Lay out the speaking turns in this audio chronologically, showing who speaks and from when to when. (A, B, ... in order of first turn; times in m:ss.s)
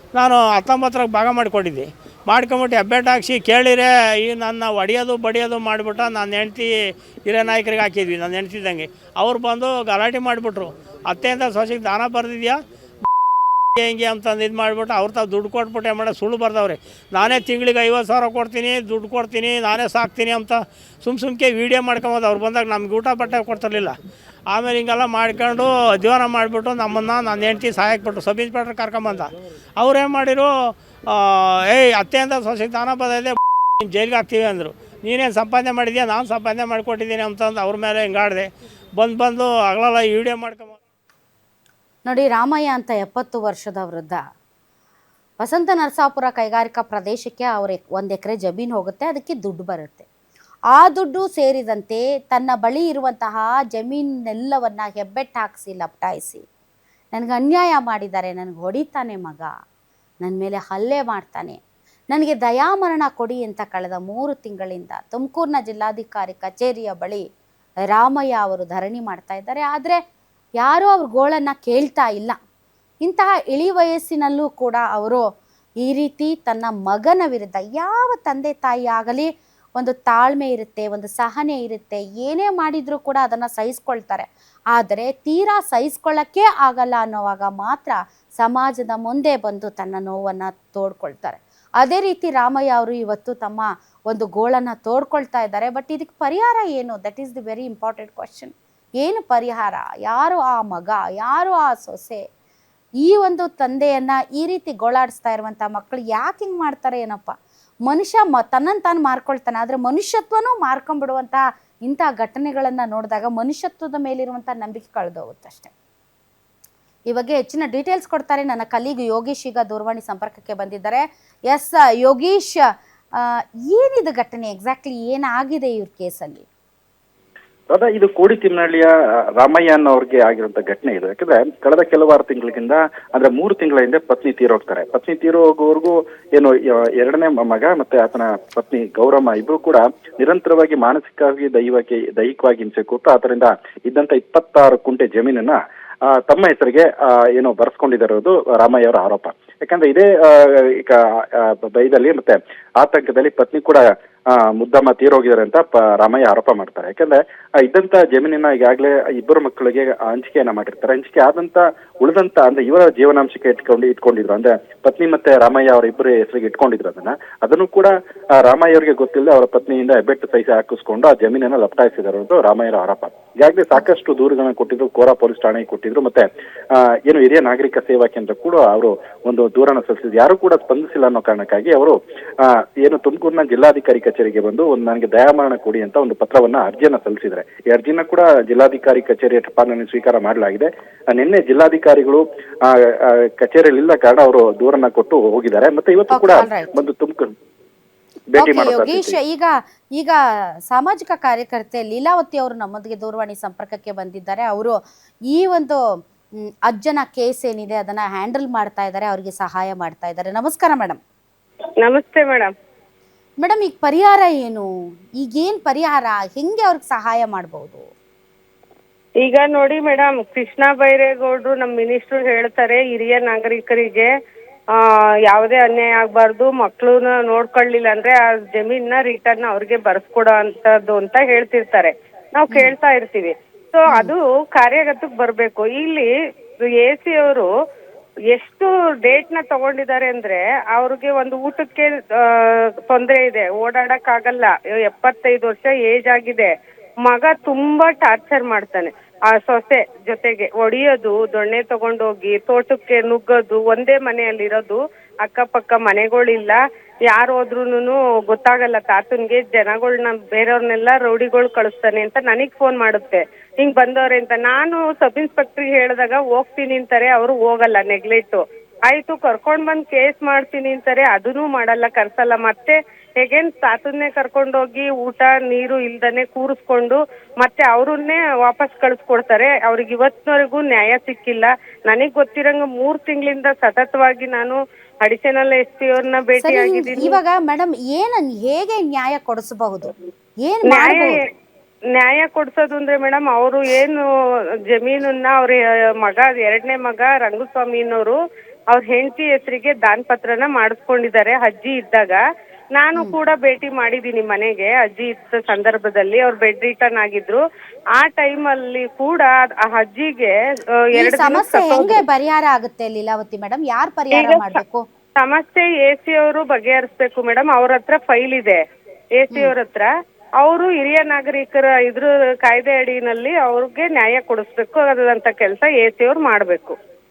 0:00.1-0:12.6 A
0:13.8-0:24.0 A
0:24.5-0:40.8 A
0:42.1-0:44.2 B
0:45.4-0:50.1 B
0:50.7-0:56.4 B
0:57.1-0:59.5 B
1:00.2-1:01.6 B
1:02.1-1:07.2 B
1:07.9-1:10.0 B
1:10.6-1:12.4 B
1:13.0-1:15.2 B
1:15.8-1:42.2 B
1:43.0-1:47.3 B
1:47.9-1:55.7 B
1:57.1-2:02.7 B
2:03.2-2:06.4 B
2:07.7-3:17.3 C
3:16.1-3:16.8 B
3:18.3-3:19.2 C
3:18.4-3:24.8 B
3:25.3-3:25.8 B
3:26.6-3:31.0 B
3:31.8-3:32.5 D
3:33.4-3:37.9 B
3:39.2-3:44.1 D
3:44.8-3:56.1 D
3:56.8-3:57.5 D
3:58.3-4:06.5 D
4:07.0-4:47.2 D
4:46.4-4:49.9 B
4:50.4-4:51.2 B
4:50.7-4:51.1 D
4:52.0-4:54.0 D
4:54.7-4:58.2 D
4:58.7-5:02.2 D
5:02.8-5:07.4 D
5:08.0-5:10.3 D
5:11.0-5:14.8 B
5:11.0-5:12.0 D
5:14.1-5:14.6 D
5:15.2-5:18.6 D
5:19.1-5:19.9 D
5:20.4-5:26.8 D